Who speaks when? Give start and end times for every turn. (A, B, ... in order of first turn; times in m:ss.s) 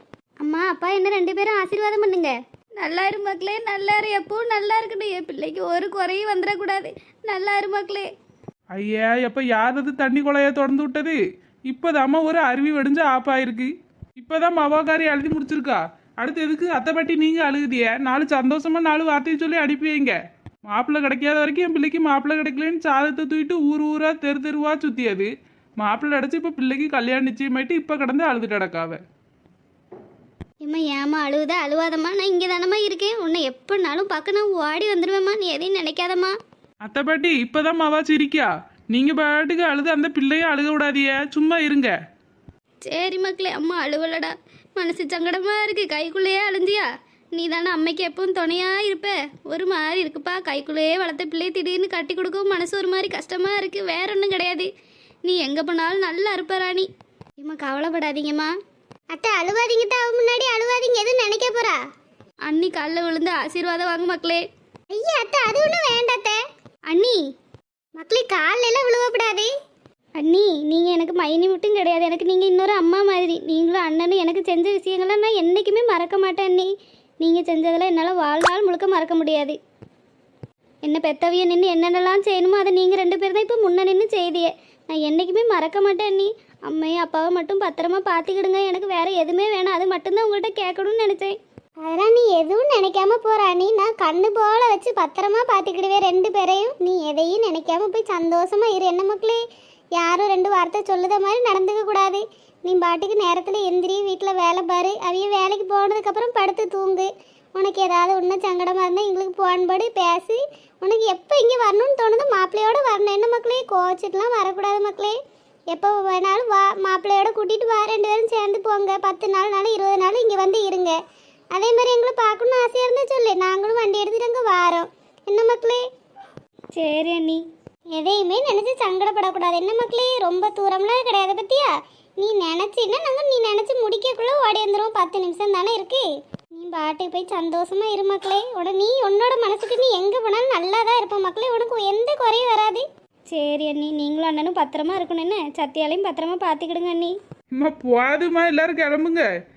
0:00.4-0:08.1 A
0:08.7-0:29.0 B
0:30.6-0:36.3 A
0:36.8-0:41.9 B
0:42.8-0:54.7 A
0:55.2-0:56.9 A
0:57.4-0:58.5 A
0:59.1-1:01.8 C
1:02.4-1:04.4 A
1:04.9-1:06.4 C
1:06.9-1:07.2 A
1:08.0-1:09.5 C
1:10.2-1:19.6 A
1:20.8-1:31.4 A
1:31.8-1:39.4 C
1:40.0-1:55.1 C
1:55.7-2:01.0 C
2:01.5-2:05.8 C
2:06.7-2:07.4 A
2:07.9-2:22.8 C
2:23.3-2:27.1 A
2:27.6-2:29.2 B